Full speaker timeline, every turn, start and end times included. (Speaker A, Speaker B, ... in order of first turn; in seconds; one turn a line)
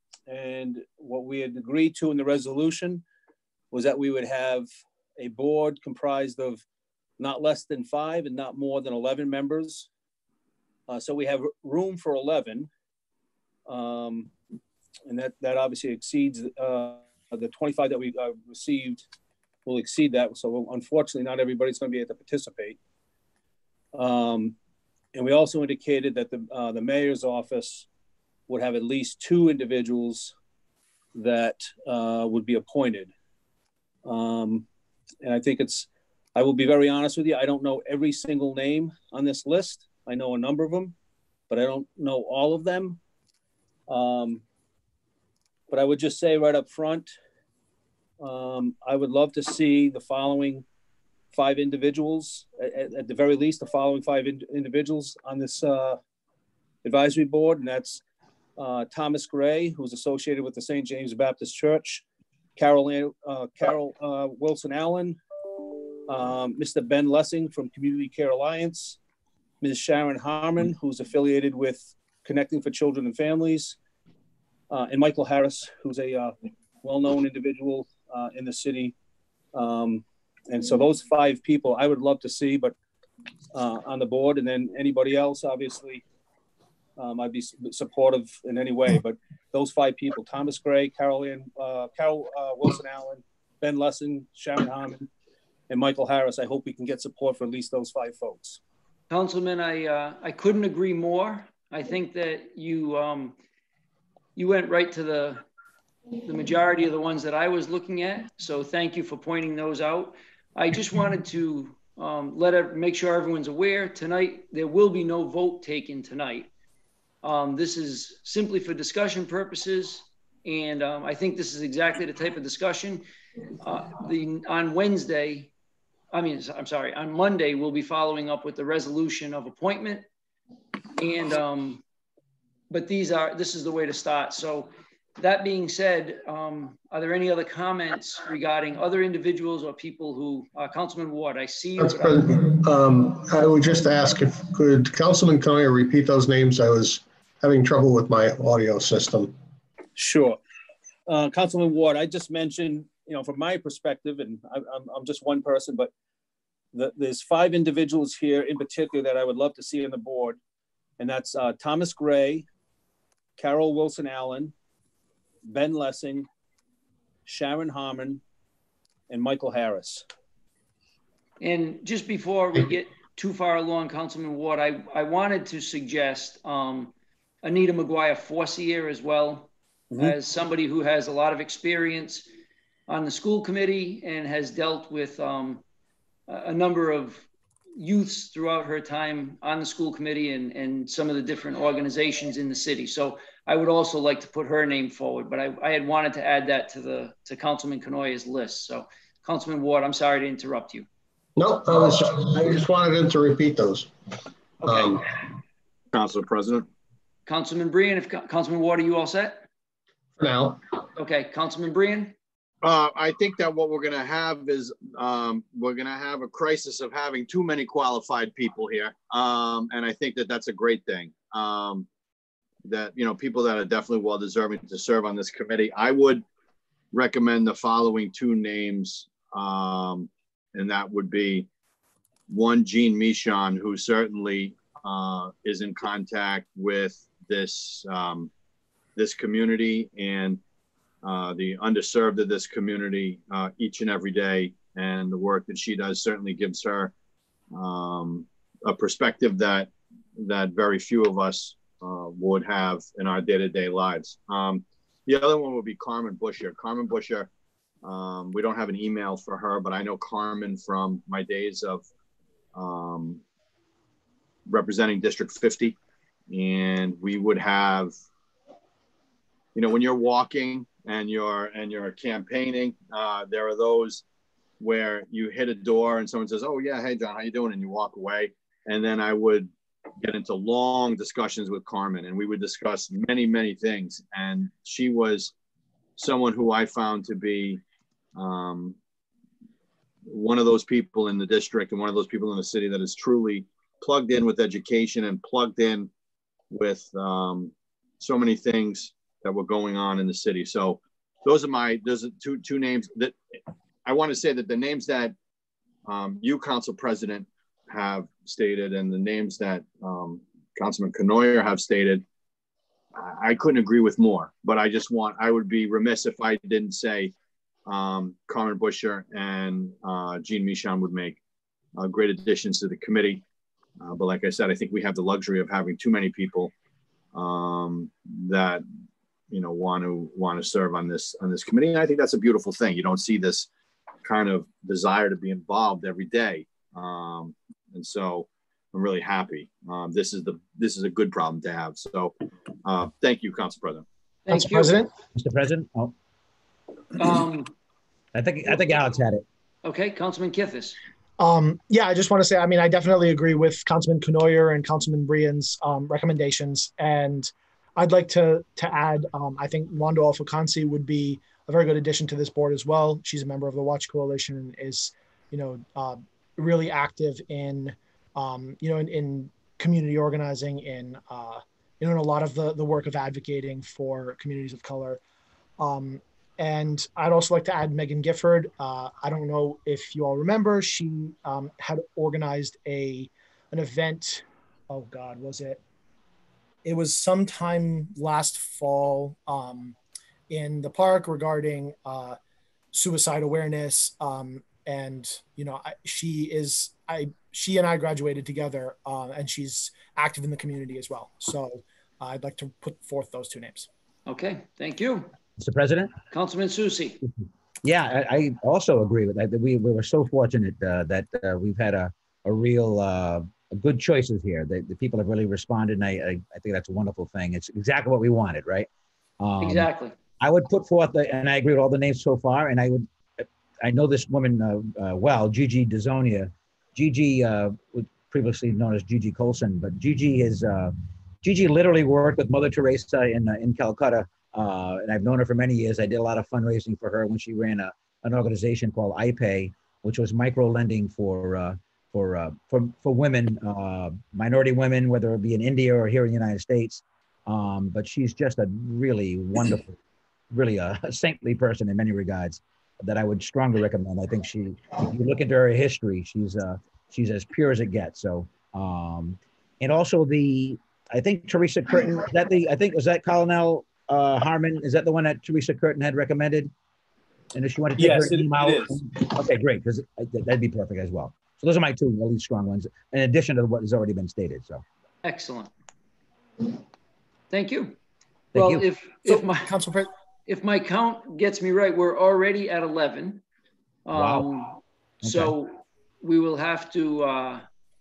Speaker A: 0.3-3.0
Speaker A: 3.7-6.6
Speaker A: 7.2-9.9
Speaker A: 10.9-12.7
Speaker A: 13.7-14.3
Speaker A: 15.1-19.1
Speaker A: 19.6-22.8
Speaker A: 23.9-24.5
Speaker A: 25.1-27.9
Speaker A: 28.5-30.3
Speaker A: 31.1-33.1
Speaker A: 34.0-34.6
Speaker A: 35.2-40.9
Speaker A: 41.5-43.0
Speaker A: 43.9-44.4
Speaker A: 45.7-47.1
Speaker A: 48.2-50.6
Speaker A: 51.3-56.0
Speaker A: 56.8-58.0
Speaker A: 58.6-62.0
Speaker A: 62.5-65.2
Speaker A: 66.1-69.0
Speaker A: 69.6-73.8
Speaker A: 74.7-78.9
Speaker A: 79.5-82.7
Speaker A: 83.5-86.0
Speaker A: 87.0-95.1
Speaker A: 95.7-98.6
Speaker B: 99.1-103.3
Speaker B: 104.3-105.4
Speaker B: 106.2-116.5
Speaker B: 117.2-123.0
Speaker B: 123.6-125.5
Speaker B: 126.1-130.1
Speaker B: 131.0-131.8
Speaker B: 132.7-142.2
Speaker C: 141.8-149.3
Speaker A: 149.9-150.4
Speaker A: 151.1-155.9
Speaker A: 156.7-160.4
Speaker A: 161.0-162.4
Speaker A: 163.4-164.5
Speaker A: 165.4-166.3
Speaker A: 167.2-168.2
Speaker A: 169.1-170.0
Speaker B: 171.4-182.2
Speaker B: 182.9-185.6
Speaker B: 186.3-200.9
Speaker C: 201.4-203.9
Speaker B: 204.6-204.9
Speaker C: 204.6-205.1
Speaker D: 205.9-206.7
Speaker B: 207.3-209.4
Speaker C: 210.2-210.6
Speaker B: 211.0-212.1
Speaker D: 212.6-221.9
Speaker D: 222.6-226.2
Speaker D: 226.9-231.5
Speaker D: 232.3-238.3
Speaker D: 238.9-240.4
Speaker D: 241.0-246.9
Speaker D: 247.5-257.3
Speaker D: 257.8-261.9
Speaker D: 262.5-263.2
Speaker D: 264.5-265.8
Speaker D: 266.3-267.9
Speaker D: 269.5-274.0
Speaker D: 274.6-285.3
Speaker D: 286.0-287.6
Speaker D: 288.1-288.8
Speaker D: 290.1-295.9
Speaker D: 296.5-303.2
Speaker D: 303.8-305.1
Speaker D: 305.9-312.0
Speaker D: 312.9-317.1
Speaker D: 317.7-321.2
Speaker D: 321.8-323.2
Speaker D: 323.8-326.5
Speaker D: 327.1-328.6
Speaker D: 329.3-333.5
Speaker D: 334.0-343.8
Speaker B: 344.2-344.7
Speaker E: 344.3-344.9
Speaker F: 345.1-345.9
Speaker B: 347.0-347.5
Speaker F: 348.1-349.2
Speaker B: 349.6-350.8
Speaker E: 351.2-375.0
Speaker E: 375.6-385.6
Speaker E: 386.6-389.8
Speaker E: 390.3-392.2
Speaker E: 392.7-403.7
Speaker B: 404.1-405.1
Speaker F: 405.4-405.9
Speaker B: 406.1-407.0
Speaker F: 407.6-418.7
Speaker F: 419.2-419.7
Speaker B: 419.4-419.9
Speaker F: 420.2-449.8
Speaker F: 450.3-466.5
Speaker F: 467.3-474.6
Speaker A: 467.8-468.8
Speaker B: 475.0-475.5
Speaker B: 477.3-477.8
Speaker F: 478.3-478.6
Speaker B: 478.3-479.5
Speaker E: 479.1-479.9
Speaker B: 480.3-483.2
Speaker B: 483.8-487.4
Speaker F: 483.9-484.3
Speaker F: 485.0-485.3